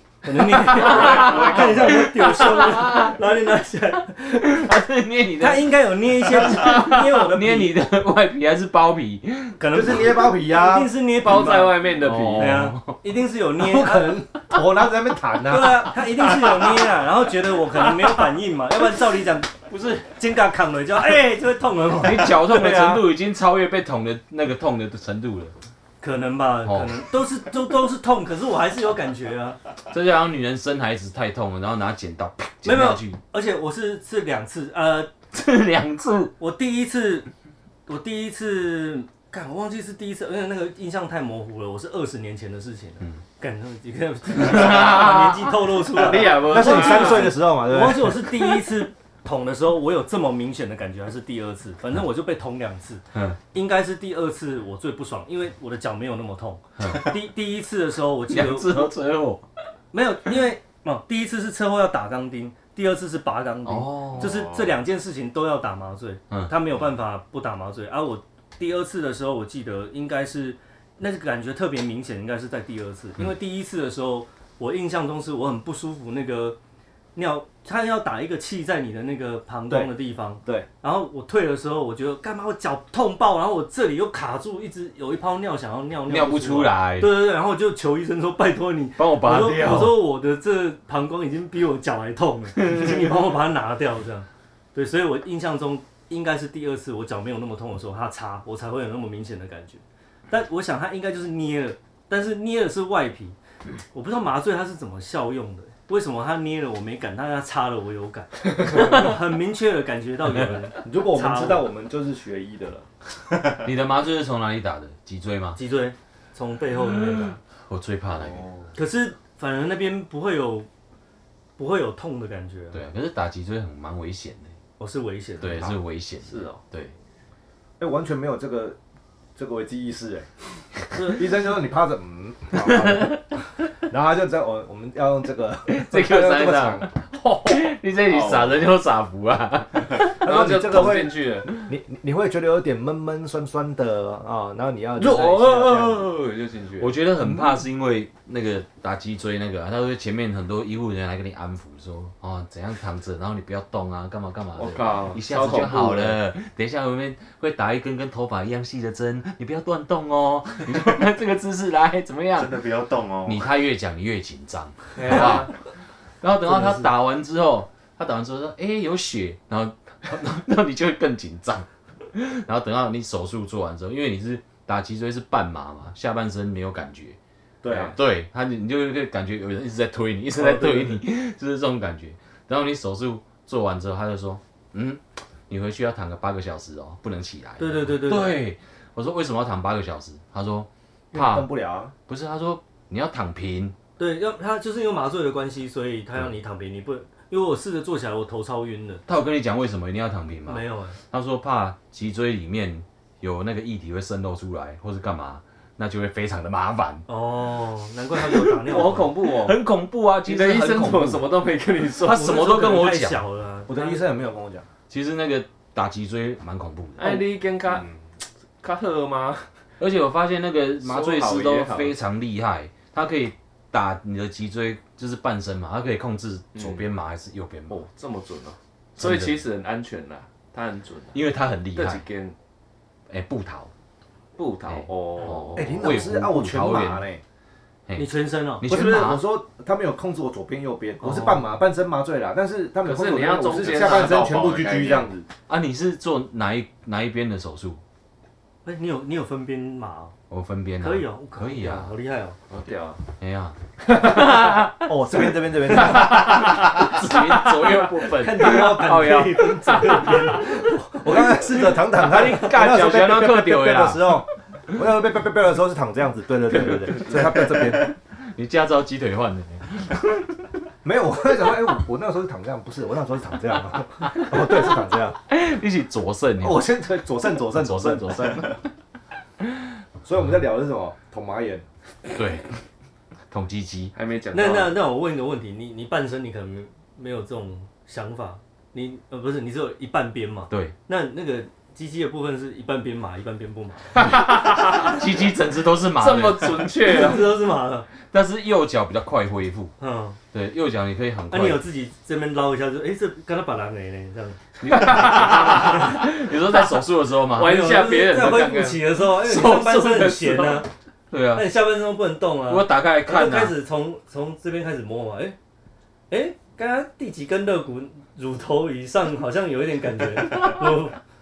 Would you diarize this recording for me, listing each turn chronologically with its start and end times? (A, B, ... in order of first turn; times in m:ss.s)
0:00.2-0:04.7 A
0:00.7-0:03.1 B
0:04.5-0:09.6 B
0:05.4-0:07.7 A
0:09.6-0:11.8 A
0:09.7-0:10.9 C
0:11.2-0:12.6 D
0:12.0-0:13.0 B
0:12.4-0:14.1 A
0:13.6-0:16.0 C
0:15.5-0:19.5 A
0:19.6-0:20.1 B
0:20.0-0:22.3 A
0:22.0-0:25.5 B
0:22.4-0:23.0 C
0:26.0-0:29.6 A
0:26.6-0:27.0 B
0:29.9-0:33.2 B
0:32.6-0:35.1 A
0:35.3-0:36.3 B
0:36.4-0:37.3 A
0:37.9-0:58.9 A
0:44.3-0:45.6 B
0:45.9-0:47.3 D
0:46.3-0:48.3 C
0:56.8-0:57.1 B
0:56.8-0:57.1 E
0:58.3-0:59.4 B
0:59.9-1:16.6 A
1:03.6-1:04.4 B
1:04.1-1:04.8 E
1:06.3-1:06.6 B
1:17.1-1:43.3 A
1:26.1-1:27.2 B
1:29.0-1:30.0 B
1:32.6-1:33.1 B
1:43.9-1:51.6 A
1:50.8-1:52.9 C
1:53.6-1:55.6 B
1:55.5-1:57.4 A
1:57.3-1:58.5 B
1:58.2-1:58.6 E
1:58.7-2:00.7 A
2:01.6-2:02.8 A
2:02.7-2:04.5 B
2:04.8-2:05.7 A
2:05.4-2:06.9 B
2:06.2-2:06.6 D
2:07.8-2:08.8 C
2:09.4-2:10.3 C
2:10.9-2:13.2 C
2:12.5-2:13.2 B
2:13.8-2:16.9 C
2:15.7-2:20.2 B
2:17.2-2:17.6 D
2:18.1-2:18.6 E
2:20.2-2:26.1 C
2:20.2-2:21.5 D
2:25.0-2:26.9 D
2:26.8-2:42.6 B
2:34.6-2:36.2 D
2:42.4-2:43.5 E
2:43.2-2:45.6 B
2:45.0-2:45.5 A
2:45.0-2:45.5 D
2:46.2-3:11.5 B
2:46.5-2:46.9 A
2:57.6-2:58.0 C
3:00.4-3:01.0 A
3:07.6-3:08.3 A
3:11.1-3:11.9 C
3:12.1-3:13.7 B
3:14.0-3:19.0 A
3:19.1-3:27.0 B
3:20.4-3:21.0 A
3:27.1-3:29.1 A
3:28.3-3:31.2 B
3:28.6-3:29.6 D
3:30.2-3:32.3 D
3:32.0-3:33.2 B
3:32.1-3:34.0 A
3:33.7-3:34.6 C
3:34.9-3:37.2 B
3:37.0-3:38.0 D
3:38.6-3:39.5 D
3:39.8-3:47.8 B
3:40.8-3:41.9 D
3:46.5-3:46.8 D
3:47.7-3:51.2 D
3:49.0-3:49.4 B
3:51.1-3:52.0 B
3:51.7-3:52.3 D
3:53.1-3:53.7 B
3:54.4-3:55.8 D
3:54.6-3:57.0 B
3:55.6-3:57.2 C
3:57.9-3:58.6 A
3:58.6-3:59.2 B
3:58.6-4:05.3 C
4:01.0-4:01.5 A
4:02.8-4:04.2 D
4:03.5-4:05.1 E
4:05.5-4:07.8 B
4:08.6-4:10.1 A
4:10.3-4:11.9 B
4:10.8-4:12.4 A
4:12.5-4:13.0 D
4:13.2-4:14.7 B
4:13.9-4:14.7 D
4:14.8-4:16.2 C
4:15.7-4:20.4 D
4:15.8-4:19.4 B
4:18.2-4:20.9 A
4:20.8-4:27.9 C
4:21.9-4:24.2 B
4:28.2-4:30.3 B
4:30.8-4:35.2 C
4:35.3-4:36.6 B
4:36.4-4:38.5 C
4:37.5-4:38.6 B
4:40.0-4:41.6 C
4:42.1-4:42.5 B
4:43.3-4:43.9 B
4:43.9-4:44.8 D
4:44.3-4:54.0 A
4:50.5-4:50.7 B
4:54.1-4:54.9 D
4:54.4-4:56.7 B
4:56.0-4:57.3 D
4:56.8-4:57.9 A
4:58.1-4:59.7 B
4:59.8-5:00.2 A
5:00.3-5:01.6 B
5:01.3-5:04.4 A
5:04.6-5:05.9 D
5:04.6-5:07.6 B
5:07.4-5:08.8 D
5:07.4-5:10.7 A
5:09.1-5:10.5 B
5:09.6-5:10.6 D
5:11.1-5:11.5 B
5:11.3-5:15.4 A
5:12.5-5:13.6 B
5:16.1-5:21.0 A